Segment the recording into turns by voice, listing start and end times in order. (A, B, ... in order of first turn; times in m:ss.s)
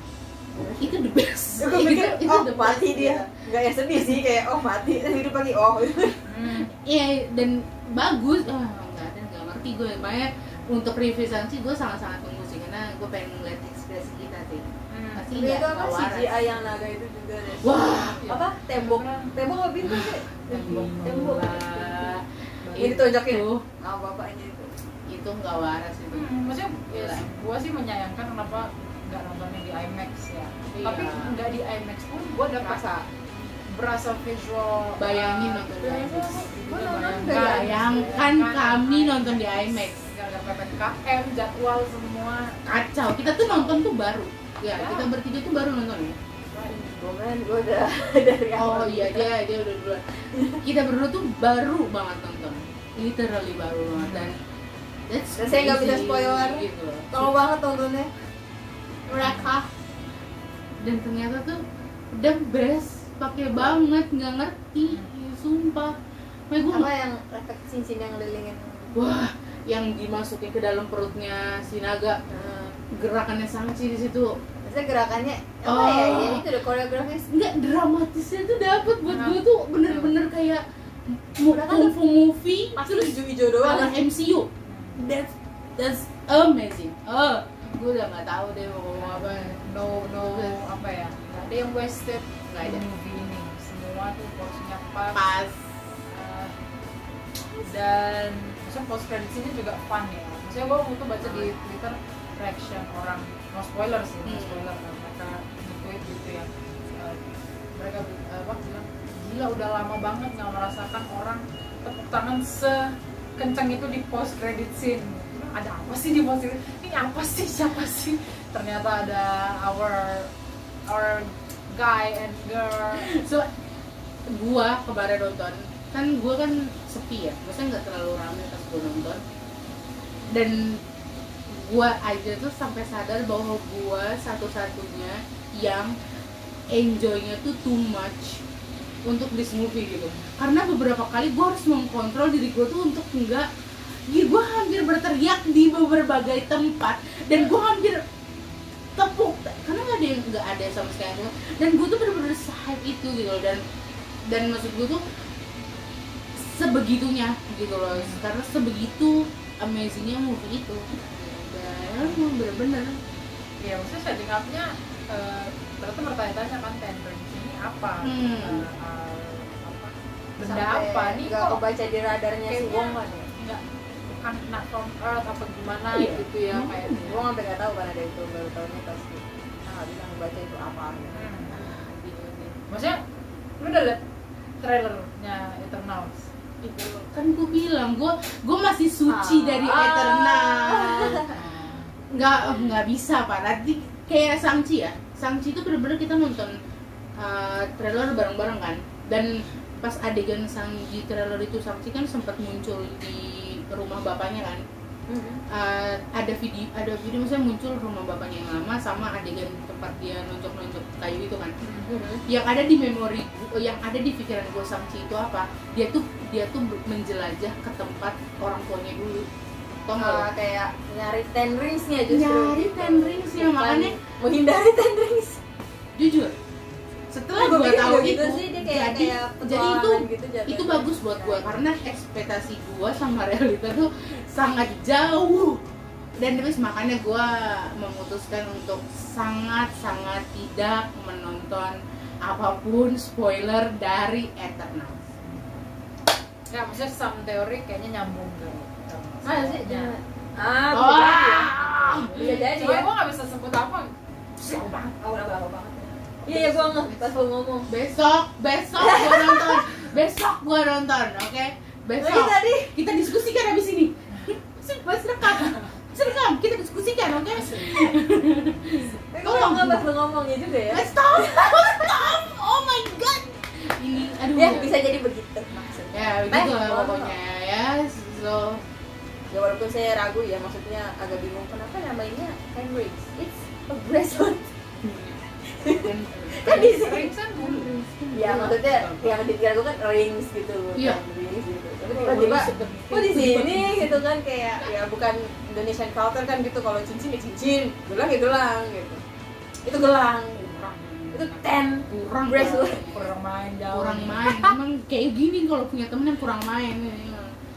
0:00.6-0:00.9 A
0:00.8-0:03.3 B
0:01.6-0:06.2 A
0:06.2-0:06.7 C
0:06.7-0:16.4 B
0:14.9-0:15.3 C
0:15.3-0:22.1 A
0:17.6-0:18.4 B
0:18.7-0:19.4 C
0:19.9-0:23.6 B
0:20.5-0:21.3 C
0:22.6-0:23.0 C
0:22.8-0:24.7 A
0:25.1-0:26.3 B
0:26.1-0:32.9 C
0:26.9-0:27.2 B
0:30.7-0:31.4 B
0:32.6-0:33.0 A
0:33.5-0:42.6 C
0:35.0-0:36.4 B
0:35.8-0:38.2 A
0:37.2-0:40.0 B
0:42.6-0:46.2 B
0:43.2-0:43.8 C
0:44.7-0:45.1 C
0:46.7-0:49.3 A
0:48.6-0:54.4 B
0:50.3-0:50.6 A
0:53.9-0:54.3 C
0:55.1-0:57.3 B
0:55.4-0:58.1 A
0:59.1-0:59.7 B
0:59.2-0:59.5 C
1:00.8-1:05.9 B
1:06.5-1:06.9 B
1:06.7-1:09.0 A
1:08.9-1:12.2 B
1:12.3-1:12.8 A
1:12.9-1:14.4 B
1:14.6-1:17.3 A
1:15.6-1:16.4 B
1:17.3-1:30.7 B
1:19.1-1:20.1 C
1:21.5-1:22.0 A
1:22.8-1:24.0 A
1:24.7-1:25.0 C
1:29.0-1:35.2 C
1:32.5-1:32.8 B
1:35.1-1:35.6 B
1:36.1-1:36.6 C
1:37.6-1:47.2 C
1:41.2-1:41.5 B
1:44.2-1:44.7 B
1:47.7-2:00.3 C
2:00.9-2:03.1 C
2:02.9-2:03.5 B
2:04.3-2:09.2 B
2:10.3-2:10.8 B
2:11.5-2:15.9 B
2:16.7-2:18.4 B
2:19.0-2:23.5 B
2:24.1-2:28.0 B
2:29.0-2:33.6 B
2:34.3-2:35.0 B
2:36.3-2:43.0 B
2:37.9-2:38.2 C
2:41.9-2:42.2 C
2:43.6-2:51.6 C
2:48.0-2:48.7 B
2:50.4-2:53.2 A
2:52.5-2:57.2 C
2:55.9-2:57.2 B
2:57.0-3:01.8 A
3:01.1-3:01.5 C
3:01.6-3:02.6 B
3:02.7-3:03.0 C
3:03.6-3:04.0 C
3:04.6-3:06.3 C
3:06.6-3:11.4 B
3:09.1-3:11.3 A
3:11.2-3:11.9 C
3:12.1-3:16.6 B
3:17.2-3:24.6 B
3:25.1-3:25.4 A
3:25.5-3:31.5 B
3:31.6-3:31.9 C
3:31.9-3:32.2 A
3:32.2-3:39.3 B
3:39.8-3:40.3 B
3:40.0-3:45.4 A
3:42.1-3:44.0 B
3:46.0-3:46.4 B
3:47.1-3:55.6 B
3:47.3-3:51.6 A
3:56.2-4:05.0 B
4:06.5-4:10.0 C
4:09.2-4:09.6 B
4:09.3-4:12.9 A
4:10.7-4:12.5 B
4:12.1-4:15.0 C
4:15.0-4:17.7 A
4:16.3-4:17.0 B
4:17.7-4:29.9 B
4:18.8-4:19.7 A
4:22.0-4:22.7 A
4:25.4-4:25.7 C
4:27.3-4:27.9 C
4:29.1-4:31.9 A
4:30.7-4:34.8 B
4:34.3-4:37.1 A
4:35.9-4:38.6 B
4:39.3-4:44.5 A
4:44.8-4:46.8 B
4:45.5-4:47.1 A
4:46.4-4:47.8 C
4:47.4-4:49.2 B
4:48.1-4:59.0 A
4:50.8-4:51.0 B
4:51.9-4:54.0 B
4:59.6-5:02.9 A
5:00.5-5:03.1 B
5:02.6-5:04.3 C
5:03.7-5:07.3 B